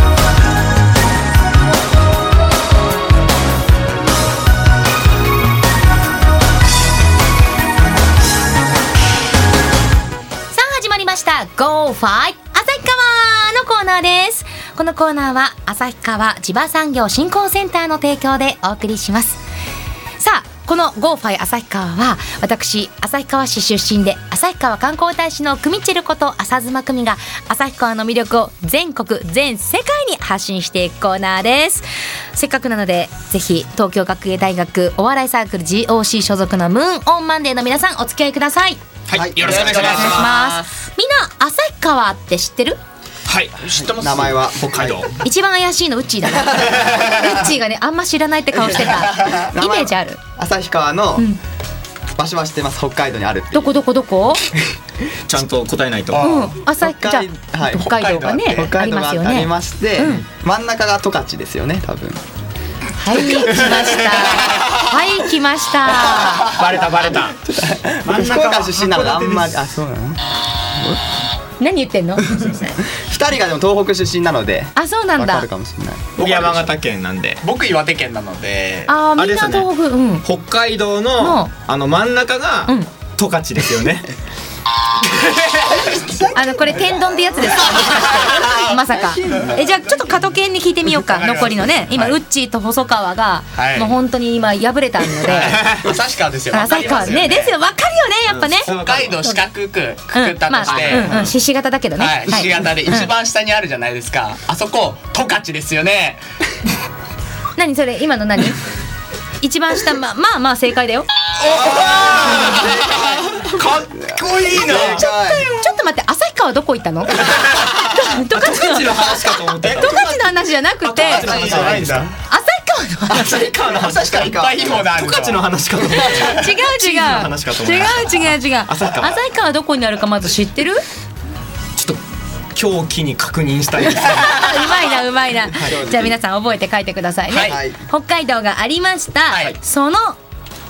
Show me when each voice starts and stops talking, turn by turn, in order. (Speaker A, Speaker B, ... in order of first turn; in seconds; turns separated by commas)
Speaker A: 10.5-19.4, Speaker A: 20.2-38.8, Speaker B: 39.1-40.3, Speaker C: 39.1-39.8, Speaker D: 39.3-40.7, Speaker A: 39.8-42.8, Speaker B: 43.3-43.6, Speaker D: 43.6-44.5, Speaker C: 43.8-45.0, Speaker B: 44.5-45.2, Speaker A: 45.2-50.2, Speaker C: 46.4-47.3, Speaker C: 49.1-51.3, Speaker C: 52.1-53.7, Speaker A: 53.5-54.4, Speaker B: 55.2-56.3, Speaker D: 56.1-56.5, Speaker A: 56.1-60.2, Speaker C: 56.6-62.2, Speaker A: 63.0-66.5, Speaker B: 66.4-67.4, Speaker C: 67.3-70.2, Speaker B: 68.1-69.6, Speaker A: 71.6-72.8, Speaker C: 72.9-76.7, Speaker A: 74.7-75.5, Speaker B: 76.2-77.4, Speaker D: 77.4-78.9, Speaker A: 78.9-80.2, Speaker B: 79.1-79.7, Speaker B: 80.2-84.1, Speaker A: 81.2-81.5, Speaker B: 85.4-85.8, Speaker D: 85.7-86.8, Speaker A: 86.3-95.7, Speaker D: 87.8-88.5, Speaker C: 88.9-89.8, Speaker D: 90.0-90.2, Speaker D: 90.9-92.2, Speaker D: 93.5-94.0, Speaker D: 95.2-97.5, Speaker B: 95.3-95.9, Speaker A: 96.5-98.7, Speaker B: 98.3-99.4, Speaker D: 98.6-101.3, Speaker A: 100.1-103.1, Speaker B: 100.6-101.0, Speaker D: 102.0-106.2, Speaker A: 107.5-108.7, Speaker A: 109.4-111.1, Speaker D: 111.5-112.9, Speaker B: 111.6-115.0, Speaker C: 112.1-115.5, Speaker D: 113.6-114.9, Speaker A: 114.8-121.7, Speaker B: 118.1-120.1, Speaker D: 119.6-120.2, Speaker B: 120.8-122.0, Speaker D: 121.0-122.1, Speaker C: 121.3-122.0, Speaker A: 122.3-123.4, Speaker C: 123.1-124.8, Speaker B: 123.1-124.2, Speaker D: 124.0-126.5, Speaker B: 124.7-129.2, Speaker A: 126.2-130.8, Speaker B: 132.5-134.8, Speaker A: 134.0-140.2, Speaker C: 135.5-136.2, Speaker D: 137.3-137.6, Speaker C: 137.4-137.8, Speaker D: 139.3-139.6